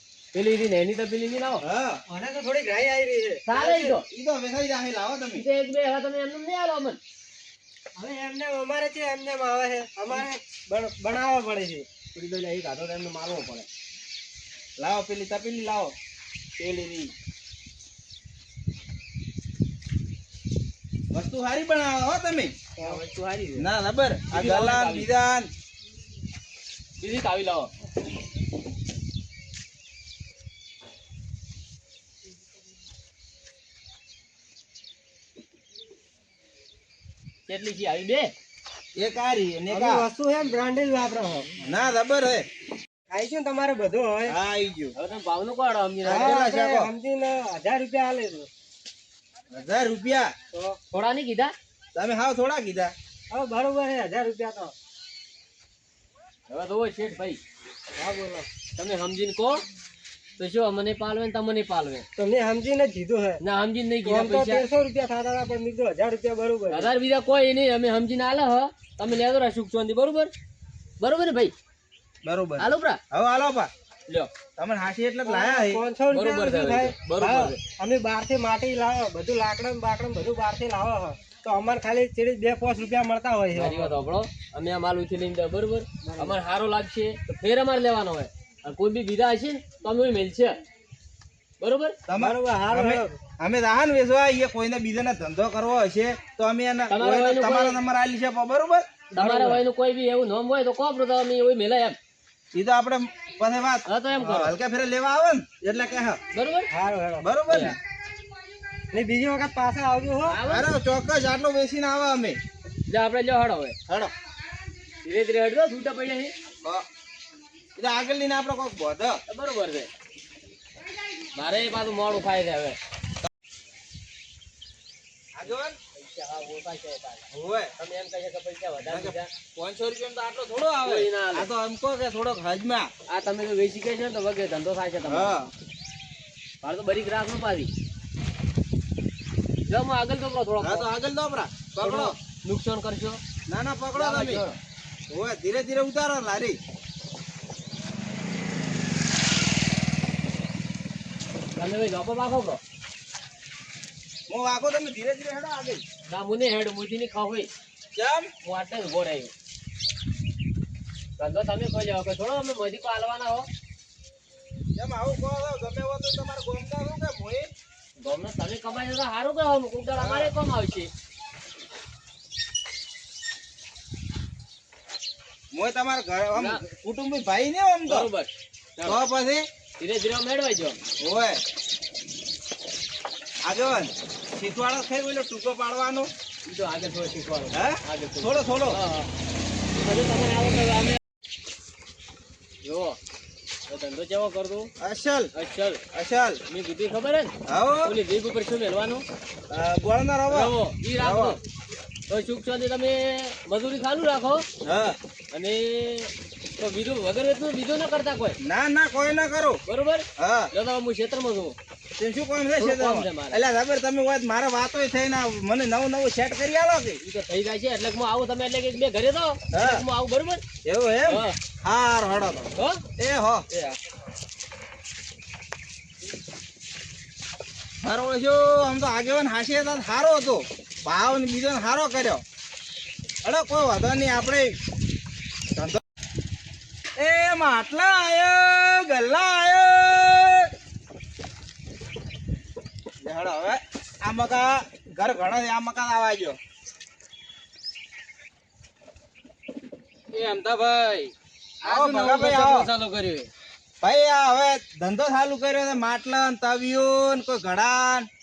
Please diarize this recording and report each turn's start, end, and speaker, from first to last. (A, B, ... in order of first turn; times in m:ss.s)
0:00.3-0:01.6 A
0:01.6-0:02.0 B
0:02.1-0:04.0 C
0:03.5-0:04.1 A
0:04.0-0:05.4 B
0:05.3-0:07.0 A
0:08.0-0:11.9 C
0:12.2-0:13.7 A
0:14.8-0:16.0 B
0:16.6-0:17.1 B
0:21.1-0:22.5 B
0:22.8-0:23.7 A
0:23.6-0:25.5 B
0:24.3-0:25.1 A
0:27.0-0:27.7 A
0:37.5-0:38.3 A
0:39.0-0:40.1 B
0:39.7-0:41.5 C
0:41.6-0:42.5 B
0:43.1-0:44.4 C
0:44.3-0:44.9 B
0:44.9-0:46.4 A
0:46.0-0:46.9 B
0:46.0-0:48.5 C
0:49.5-0:50.3 B
0:50.5-0:50.8 C
0:50.9-0:51.5 A
0:52.0-0:52.9 B
0:53.3-0:54.7 C
0:56.5-0:57.4 A
0:58.0-0:58.5 C
0:58.8-0:59.6 A
1:00.4-1:02.1 A
1:02.2-1:03.4 C
1:03.4-1:04.7 A
1:04.0-1:06.9 C
1:06.7-1:10.3 A
1:11.0-1:11.5 A
1:12.2-1:13.7 B
1:12.6-1:13.0 A
1:14.6-1:15.8 B
1:15.2-1:24.0 C
1:16.1-1:17.6 A
1:23.5-1:30.6 A
1:26.0-1:26.4 C
1:31.6-1:32.0 A
1:32.1-1:38.9 B
1:32.2-1:33.2 C
1:36.9-1:37.8 A
1:39.1-1:42.0 A
1:39.2-1:39.6 C
1:42.5-1:46.2 B
1:43.9-1:44.5 A
1:46.3-1:46.7 A
1:46.7-1:47.3 C
1:47.2-1:47.8 B
1:47.5-1:47.8 A
1:48.9-1:50.4 C
1:50.3-1:50.7 A
1:50.5-1:52.4 B
1:52.9-1:53.8 A
1:55.0-1:56.3 A
1:57.8-1:59.2 B
1:59.3-1:59.9 A
2:01.3-2:02.8 A
2:05.4-2:05.8 B
2:05.9-2:07.3 A
2:07.3-2:07.7 B
2:07.8-2:09.3 A
2:08.9-2:12.9 B
2:10.8-2:11.5 A
2:13.1-2:15.3 A
2:15.0-2:15.5 B
2:16.6-2:17.7 A
2:19.7-2:20.9 A
2:20.6-2:22.1 B
2:21.8-2:23.2 A
2:23.5-2:24.4 B
2:24.0-2:24.6 A
2:25.1-2:26.6 B
2:31.6-2:32.6 A
2:34.3-2:35.8 B
2:36.1-2:37.5 A
2:38.0-2:38.3 B
2:38.4-2:39.3 A
2:41.2-2:43.5 A
2:44.8-2:47.5 B
2:48.0-2:50.9 A
2:50.0-2:50.3 B
2:55.5-2:58.1 B
2:56.4-2:56.6 A
2:57.9-2:59.0 A
2:58.8-2:59.5 B
2:59.8-3:00.8 A
3:01.0-3:01.4 B
3:03.4-3:06.1 B
3:06.5-3:09.1 A
3:07.5-3:08.8 B
3:09.7-3:11.0 A
3:12.6-3:13.0 A
3:13.7-3:14.7 A
3:14.8-3:15.3 B
3:15.3-3:15.8 A
3:15.9-3:16.4 B
3:16.5-3:19.0 A
3:17.5-3:18.0 B
3:19.5-3:21.4 B
3:20.3-3:21.4 A
3:22.1-3:24.5 A
3:24.6-3:25.0 B
3:25.3-3:28.4 A
3:28.4-3:29.6 B
3:29.7-3:31.6 A
3:30.2-3:30.5 B
3:32.0-3:37.0 B
3:32.6-3:33.4 A
3:37.0-3:40.4 A
3:39.5-3:39.8 B
3:40.6-3:43.5 B
3:41.1-3:41.4 A
3:42.6-3:42.8 A
3:43.5-3:43.8 A
3:47.8-3:52.2 B
3:53.2-3:54.6 B
3:55.6-3:55.8 B
3:57.0-4:00.5 B
4:03.0-4:06.4 B
4:10.1-4:13.3 D
4:11.6-4:12.7 B
4:13.8-4:18.1 B